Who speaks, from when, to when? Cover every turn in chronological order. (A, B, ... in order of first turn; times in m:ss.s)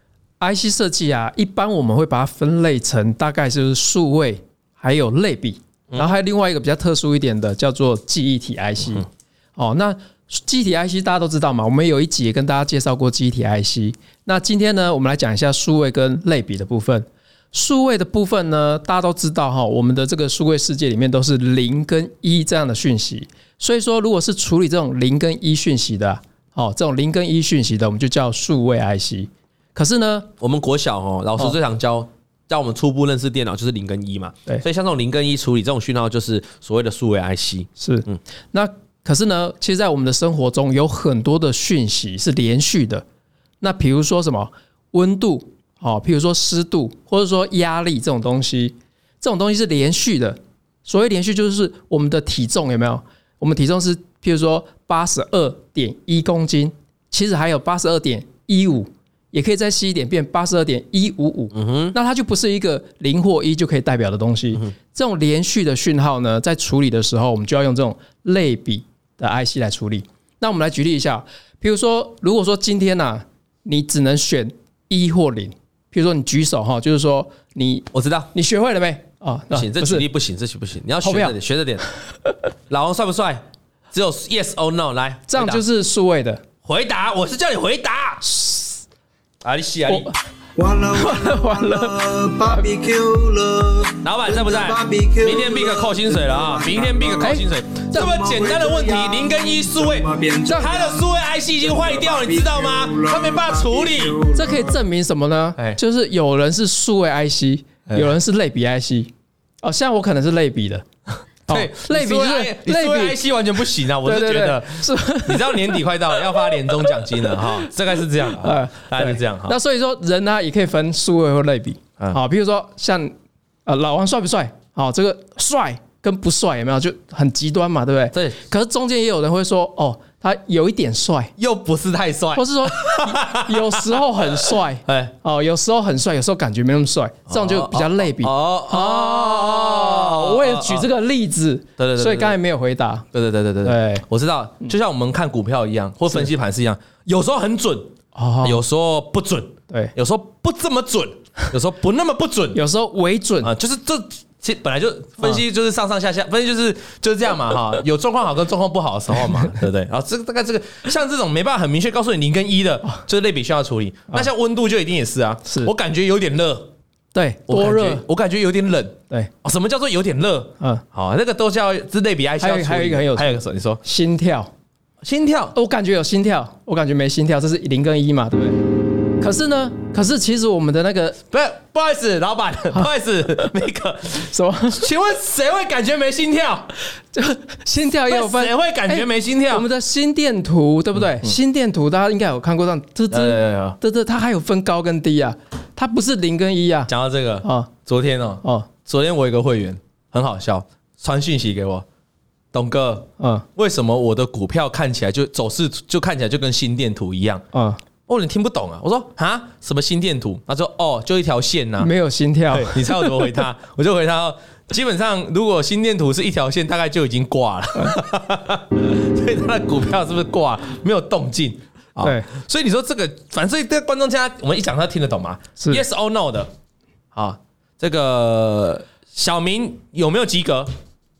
0:00.4-0:30.3 A
0:30.4-0:38.2 B
0:37.8-0:43.0 A
0:43.6-1:20.0 A
1:01.5-1:01.9 B
1:17.9-1:18.3 B
1:19.5-1:21.8 B
1:21.0-1:21.3 A
1:22.7-1:25.6 B
1:25.3-1:26.4 A
1:26.6-1:28.2 B
1:28.2-1:28.8 A
1:29.4-1:30.1 B
1:29.9-1:30.1 A
1:30.6-1:37.4 C
1:31.0-1:31.9 A
1:34.0-1:44.2 B
1:37.2-1:38.0 A
1:37.9-1:44.8 C
1:40.5-1:40.8 A
1:44.3-1:50.8 A
1:47.9-1:48.1 B
1:51.5-1:53.2 A
1:51.5-1:59.5 B
1:54.0-1:55.8 A
1:58.3-2:03.1 A
2:03.6-2:11.3 A
2:11.4-2:14.2 B
2:12.3-2:23.0 A
2:14.8-2:15.1 B
2:17.3-2:20.9 B
2:21.8-2:22.4 B
2:23.1-2:32.6 B
2:23.6-2:24.0 A
2:28.1-2:28.6 A
2:32.5-2:33.5 A
2:33.4-2:46.7 B
2:45.5-2:45.7 A
2:47.1-2:48.0 A
2:47.5-2:53.8 B
2:52.4-2:54.5 A
2:55.0-2:55.5 B
2:55.5-3:01.2 A
3:01.3-3:06.7 B
3:04.3-3:04.9 A
3:07.1-3:16.9 A
3:08.1-3:09.6 B
3:13.1-3:13.8 B
3:16.9-3:21.8 B
3:17.4-3:17.7 A
3:18.4-3:18.7 A
3:22.5-3:27.4 B
3:23.2-3:23.4 A
3:27.5-3:27.8 A
3:28.1-3:31.9 B
3:31.8-3:33.3 A
3:32.5-3:46.5 B
3:42.0-3:42.3 A
3:45.6-3:45.8 A
3:47.1-3:50.7 B